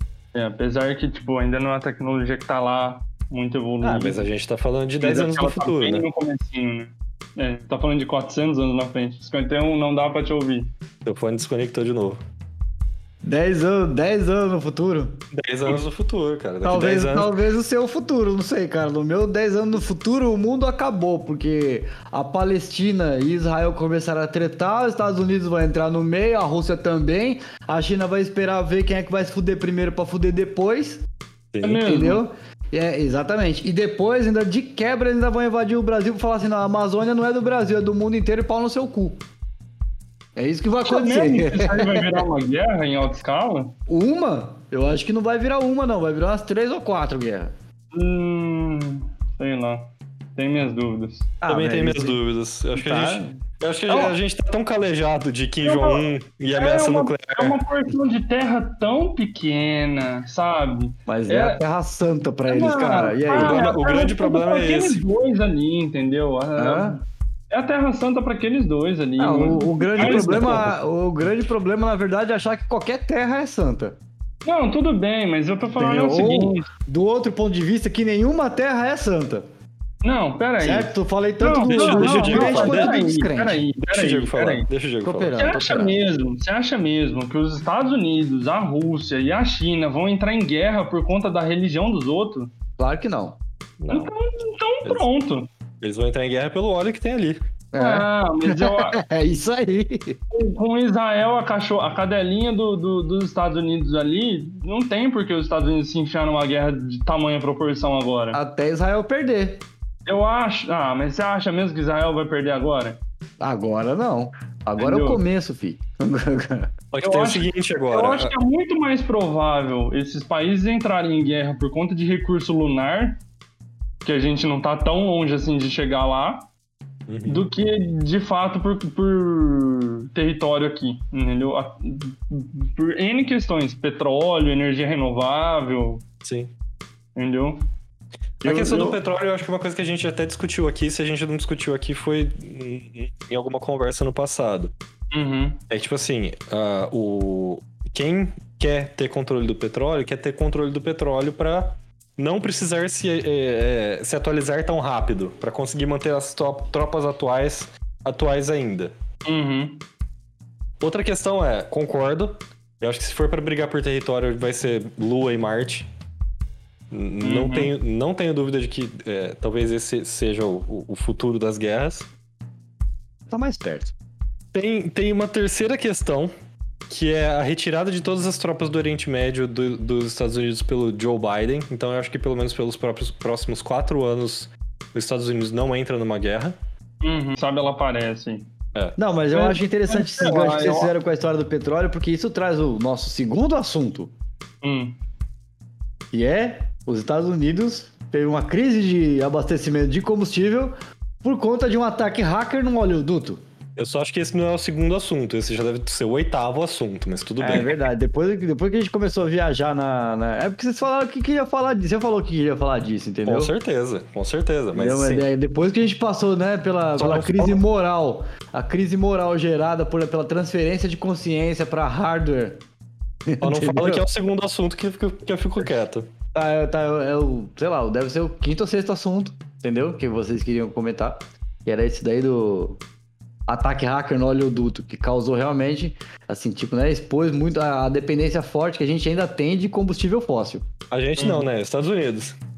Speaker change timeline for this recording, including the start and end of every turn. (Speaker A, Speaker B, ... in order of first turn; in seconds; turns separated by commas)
Speaker A: 0.3-4.2, Speaker B: 3.8-6.0, Speaker A: 5.0-10.7, Speaker B: 11.0-12.2, Speaker C: 13.2-15.2, Speaker B: 15.3-17.4, Speaker C: 16.6-31.0, Speaker B: 31.5-31.9, Speaker A: 31.6-32.2, Speaker C: 31.9-39.2, Speaker C: 40.4-42.2, Speaker A: 40.8-43.8, Speaker C: 43.9-47.5, Speaker A: 47.9-51.3, Speaker C: 51.4-52.2, Speaker B: 51.5-57.6, Speaker C: 52.7-53.2, Speaker A: 53.9-54.1, Speaker A: 55.6-61.6, Speaker C: 61.1-63.7, Speaker A: 62.5-70.7, Speaker B: 63.4-65.0, Speaker C: 66.6-67.0, Speaker C: 69.2-74.0, Speaker B: 70.0-70.7, Speaker A: 74.4-76.7, Speaker C: 75.8-79.5, Speaker A: 80.0-84.7, Speaker C: 80.6-83.6, Speaker B: 81.6-83.0, Speaker B: 83.9-85.7, Speaker C: 85.0-85.9, Speaker A: 85.4-92.5, Speaker C: 92.8-93.4, Speaker B: 93.8-94.1, Speaker A: 93.9-95.5, Speaker B: 95.8-97.4, Speaker C: 97.7-100.2, Speaker A: 97.8-99.0, Speaker A: 100.3-108.4, Speaker C: 108.3-109.6, Speaker A: 110.0-113.0, Speaker C: 113.4-116.7, Speaker A: 114.8-115.2, Speaker B: 116.9-118.3, Speaker A: 117.0-123.2, Speaker A: 124.0-126.5, Speaker B: 127.1-127.5, Speaker A: 127.2-136.0, Speaker B: 136.2-136.5, Speaker A: 137.2-137.7, Speaker B: 138.4-144.7, Speaker A: 138.4-139.0, Speaker A: 145.1-145.6, Speaker B: 145.7-158.9, Speaker A: 159.2-159.8, Speaker B: 160.8-165.9, Speaker B: 166.9-172.1, Speaker A: 167.2-167.7, Speaker C: 173.3-173.9, Speaker B: 174.5-176.3, Speaker B: 176.9-186.5, Speaker A: 187.0-188.5, Speaker C: 189.0-194.1, Speaker A: 189.3-190.9, Speaker A: 194.6-195.0, Speaker C: 196.1-203.4, Speaker B: 203.8-207.8, Speaker C: 207.4-213.5, Speaker B: 213.2-215.2, Speaker C: 214.7-222.6, Speaker B: 217.0-217.6, Speaker C: 223.3-224.0, Speaker B: 223.4-226.1, Speaker C: 226.3-232.8, Speaker C: 233.5-240.7, Speaker B: 240.9-242.4, Speaker A: 241.2-241.4